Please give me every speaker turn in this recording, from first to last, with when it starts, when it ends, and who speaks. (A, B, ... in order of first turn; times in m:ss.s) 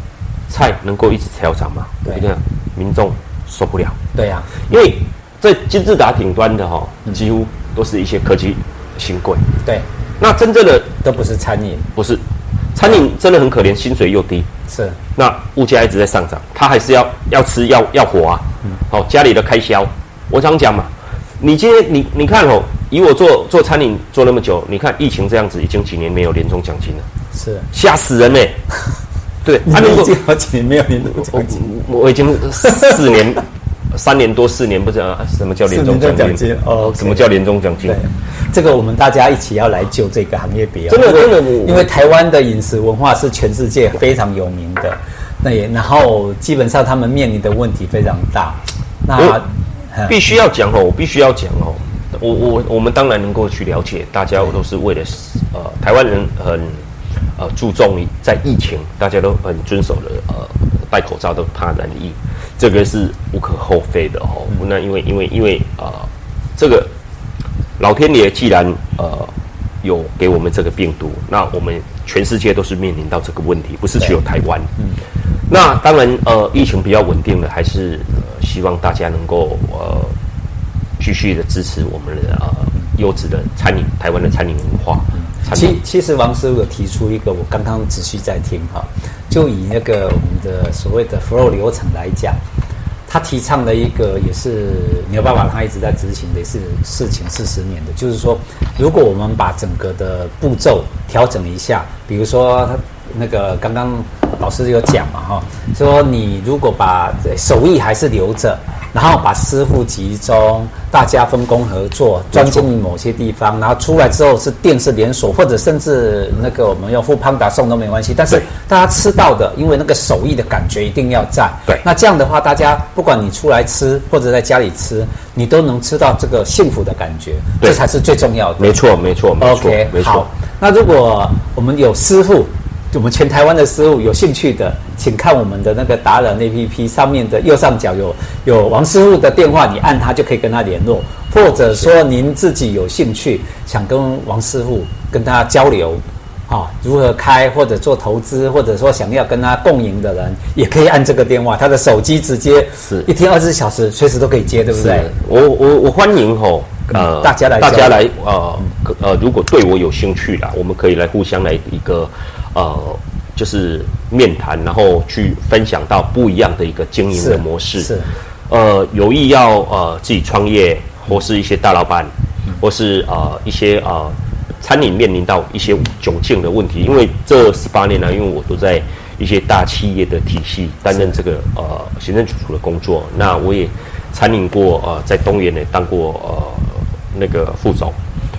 0:00.5-0:04.0 A
0:04.2-0:04.5 B
0:04.6-0:09.4 A
0:10.2-0:10.9 A
0:11.0-0:11.9 B
0:12.0-0:12.2 A
0:12.8-0:14.5 A
0:14.7-0:15.0 B
0:15.2-0:27.1 A
0:27.3-0:27.7 B
0:27.7-0:28.6 A
0:29.4-0:30.1 A
0:29.6-0:31.7 B
0:31.2-0:38.0 A
0:35.7-0:37.3 B
0:37.9-0:50.2 B
0:40.9-0:41.9 A
0:49.2-0:49.4 A
0:50.1-0:56.8 A
0:57.4-1:06.9 A
1:07.8-1:14.7 A
1:15.5-1:20.1 A
1:21.0-1:25.8 A
1:25.4-1:32.4 B
1:33.1-2:08.8 B
1:52.4-1:52.6 A
2:08.6-2:10.3 A
2:09.4-2:35.1 B
2:32.8-2:33.1 A
2:34.7-2:47.9 A
2:36.9-2:38.0 B
2:47.1-2:48.1 B
2:48.5-3:08.0 A